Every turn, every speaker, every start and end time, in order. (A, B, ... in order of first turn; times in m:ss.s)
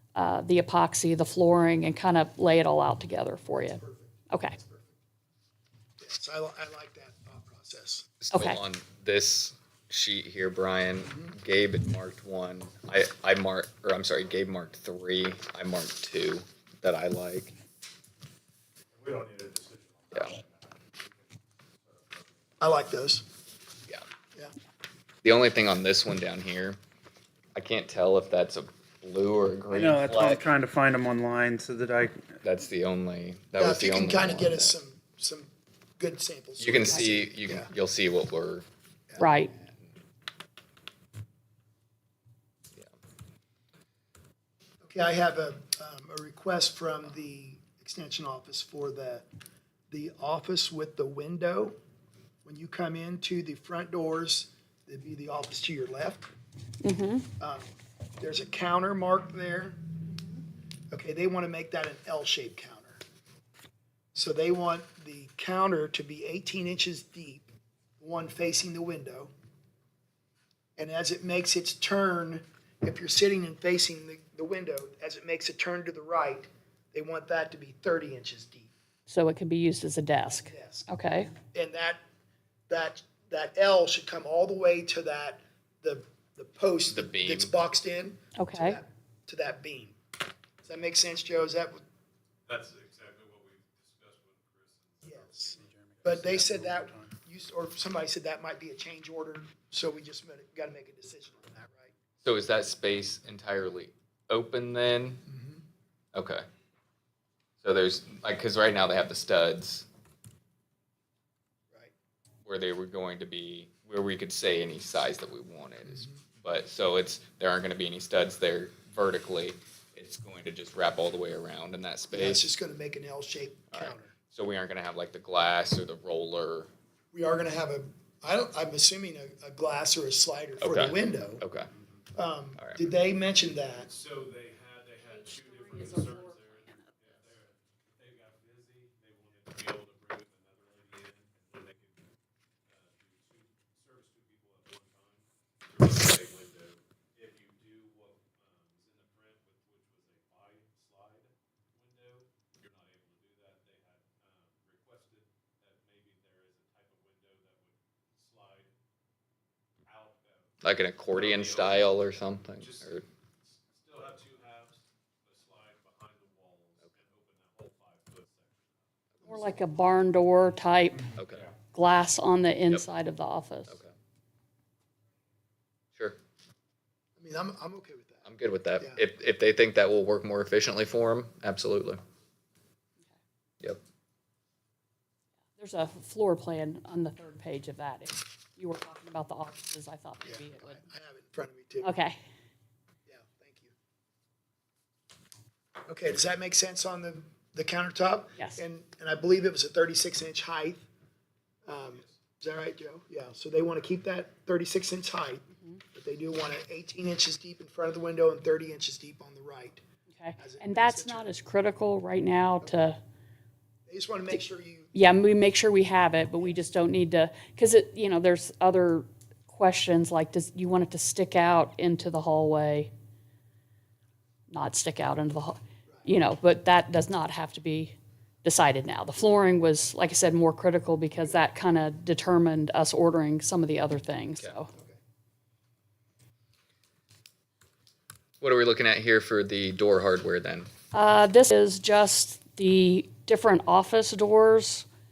0:00.1-0:04.6 A
0:03.5-0:04.9 B
0:06.0-0:08.1 B
0:08.2-0:17.5 C
0:08.3-0:08.6 A
0:11.0-0:11.3 B
0:18.9-0:20.1 D
0:19.0-0:21.3 E
0:21.8-0:22.4 E
0:22.6-0:23.3 B
0:25.2-0:26.8 C
0:27.5-0:30.5 C
0:29.7-0:32.3 D
0:32.4-0:34.7 C
0:33.6-0:37.7 B
0:36.6-0:38.7 C
0:39.2-0:39.5 A
0:39.5-0:39.9 C
0:44.8-0:49.2 B
0:49.9-0:51.8 B
0:52.4-0:56.3 B
0:56.8-0:57.3 A
0:57.4-0:59.8 B
1:00.9-1:03.0 B
1:04.1-1:07.5 B
1:08.0-1:09.3 B
1:10.8-1:18.7 B
1:19.1-1:21.3 A
1:20.3-1:22.0 B
1:22.7-1:30.0 B
1:26.9-1:27.5 C
1:28.4-1:28.8 A
1:30.6-1:31.8 B
1:32.5-1:35.7 E
1:35.0-1:41.9 B
1:35.5-1:37.1 D
1:42.2-1:45.2 C
1:45.2-1:45.6 B
1:46.1-1:46.4 C
1:47.6-1:49.8 C
1:52.4-2:02.4 C
1:55.9-1:56.2 B
2:02.1-2:04.1 B
2:03.7-2:06.7 C
2:07.1-2:11.4 B
2:10.6-2:11.7 C
2:12.1-2:13.9 B
2:12.6-2:12.8 C
2:13.8-2:22.0 E
2:15.1-2:16.9 A
2:22.6-2:38.7 E
2:39.8-2:42.0 E
2:40.6-2:43.0 C
2:42.6-2:43.0 E
2:43.7-2:48.8 E
2:49.2-2:49.7 B
2:49.2-2:53.8 A
2:51.2-2:51.5 C
2:53.7-2:53.9 C
2:57.2-2:58.2 B
2:58.2-3:02.0 C
3:05.6-3:10.8 A
3:10.2-3:11.9 B
3:11.8-3:12.2 A
3:13.0-3:13.7 B
3:15.9-3:20.8 B
3:21.6-3:29.8 B
3:30.1-3:33.0 A
3:30.4-3:31.3 B
3:33.9-3:34.9 B
3:34.9-3:42.9 A
3:36.4-3:36.6 B
3:44.5-3:54.7 A
3:54.7-3:55.0 B
3:58.4-4:00.7 C
4:00.9-4:04.8 A